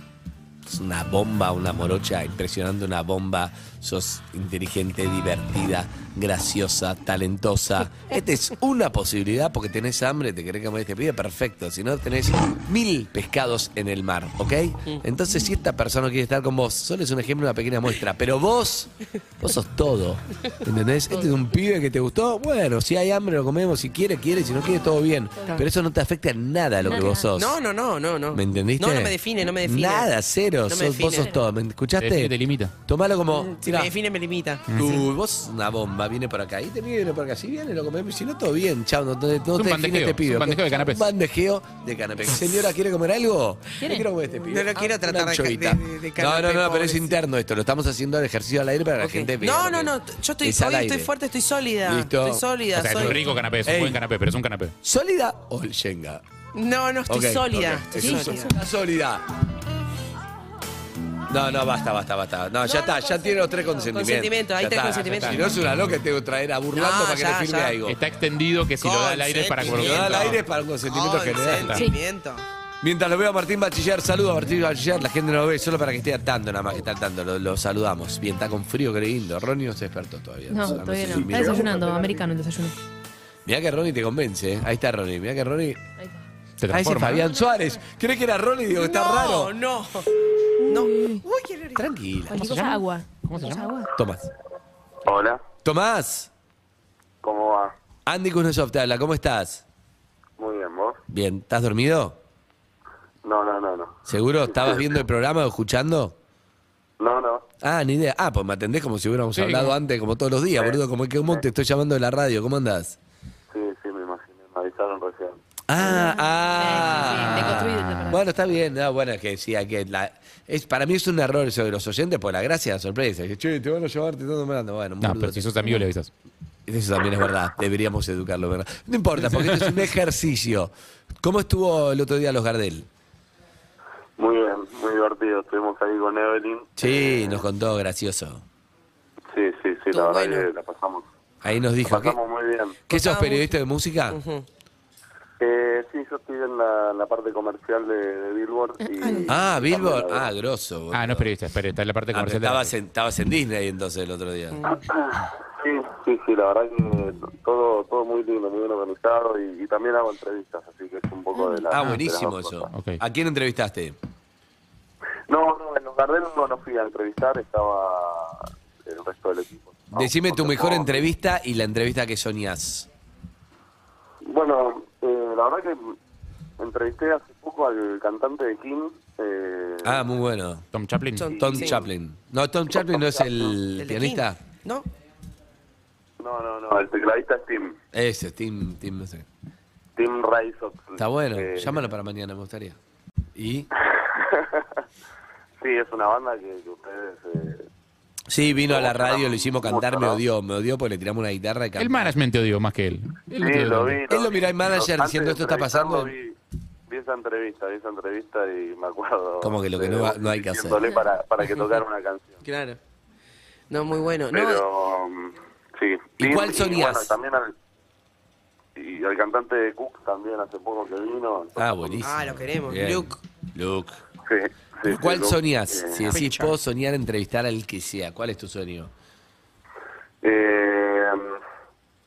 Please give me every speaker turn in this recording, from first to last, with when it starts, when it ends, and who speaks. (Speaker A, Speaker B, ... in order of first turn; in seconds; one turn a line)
Speaker A: 0.7-27.6
Speaker B: 25.4-25.6
Speaker B: 26.8-27.3
Speaker C: 27.4-30.1
Speaker A: 28.3-32.3
Speaker C: 30.7-31.3
Speaker D: 32.0-32.7
Speaker A: 32.9-33.9
Speaker C: 33.3-35.0
Speaker D: 34.7-35.0
Speaker A: 34.7-51.1
Speaker D: 39.6-41.1
Speaker B: 43.8-44.1
Speaker C: 44.5-47.2
Speaker C: 49.0-53.2
Speaker A: 51.9-52.4
Speaker D: 52.7-54.7
Speaker A: 53.0-54.0
Speaker A: 54.8-56.2
Speaker C: 56.5-58.6
Speaker A: 57.1-59.3
Speaker B: 58.0-58.6
Speaker A: 61.3-68.0
Speaker B: 62.6-63.8
Speaker C: 63.9-65.6
Speaker D: 65.0-65.5
Speaker C: 66.7-67.8
Speaker D: 67.8-70.4
Speaker C: 68.8-72.5
Speaker A: 69.6-71.8
Speaker D: 71.6-71.9
Speaker A: 72.8-81.9
Speaker B: 80.5-82.8
Speaker C: 81.3-82.1
Speaker A: 83.5-85.8
Speaker D: 86.6-87.3
Speaker A: 86.7-89.5
Speaker C: 88.7-90.1
Speaker B: 90.6-91.2
Speaker C: 90.7-91.9
Speaker A: 91.8-92.4
Speaker B: 92.3-93.9
Speaker D: 92.3-93.7
Speaker A: 94.0-94.3
Speaker E: 95.0-95.5
Speaker A: 95.6-96.3
Speaker E: 97.2-97.7
Speaker A: 98.1-99.6
Speaker E: 100.4-101.0
Speaker A: 101.1-102.2
Speaker E: 103.2-104.8
Speaker A: 104.1-106.2
Speaker E: 107.0-107.5
Speaker A: 107.6-113.0
Speaker D: 109.4-109.8
Speaker E: 113.5-115.4
Speaker A: 115.7-125.5
Speaker B: 115.8-118.2
Speaker D: 117.0-118.2
Speaker D: 125.0-126.1
Speaker A: 126.7-132.9
Speaker E: 134.2-137.4
Speaker A: 136.8-138.4
Speaker E: 139.3-141.1
Speaker C: 139.9-140.5
Speaker A: 141.4-142.2
Speaker E: 141.8-142.8
Speaker C: 142.9-143.6
Speaker A: 142.9-144.2
Speaker C: 144.1-144.5
Speaker E: 145.4-150.3
Speaker B: 148.8-149.4
Speaker A: 149.2-151.3
Speaker D: 150.9-152.7
Speaker A: 152.1-154.6
Speaker C: 154.5-154.8
Speaker E: 154.9-162.7
Speaker B: 161.4-161.6
Speaker A: 161.7-164.0
Speaker D: 162.7-163.0
Speaker E: 165.3-171.1
Speaker A: 169.9-172.9
Speaker E: 174.2-176.0
Speaker E: 176.6-180.0
Speaker A: 179.8-180.7
Speaker D: 180.7-181.3
Speaker C: 181.2-181.8
Speaker E: 181.3-181.6
Speaker A: 181.3-184.4
Speaker E: 182.8-183.5
Speaker C: 183.8-184.9
Speaker E: 186.2-187.8
Speaker A: 187.9-189.3
Speaker E: 190.0-191.8
Speaker A: 191.0-192.8
Speaker A: 193.3-193.7
Speaker E: 193.8-194.7
Speaker E: 195.6-197.7
Speaker A: 198.3-202.1
Speaker E: 198.7-200.2
Speaker D: 201.8-204.0
Speaker E: 203.3-206.3
Speaker A: 204.1-206.2
Speaker E: 206.9-212.4
Speaker A: 209.4-210.8
Speaker C: 211.4-211.8
Speaker C: 212.4-212.8
Speaker C: 213.7-214.6
Speaker E: 214.3-217.5
Speaker A: 216.2-217.2
Speaker E: 218.8-222.0
Speaker A: 221.6-224.0
Speaker C: 222.0-223.2
Speaker E: 224.2-226.1
Speaker A: 224.9-228.9
Speaker C: 226.1-226.6
Speaker E: 230.2-231.4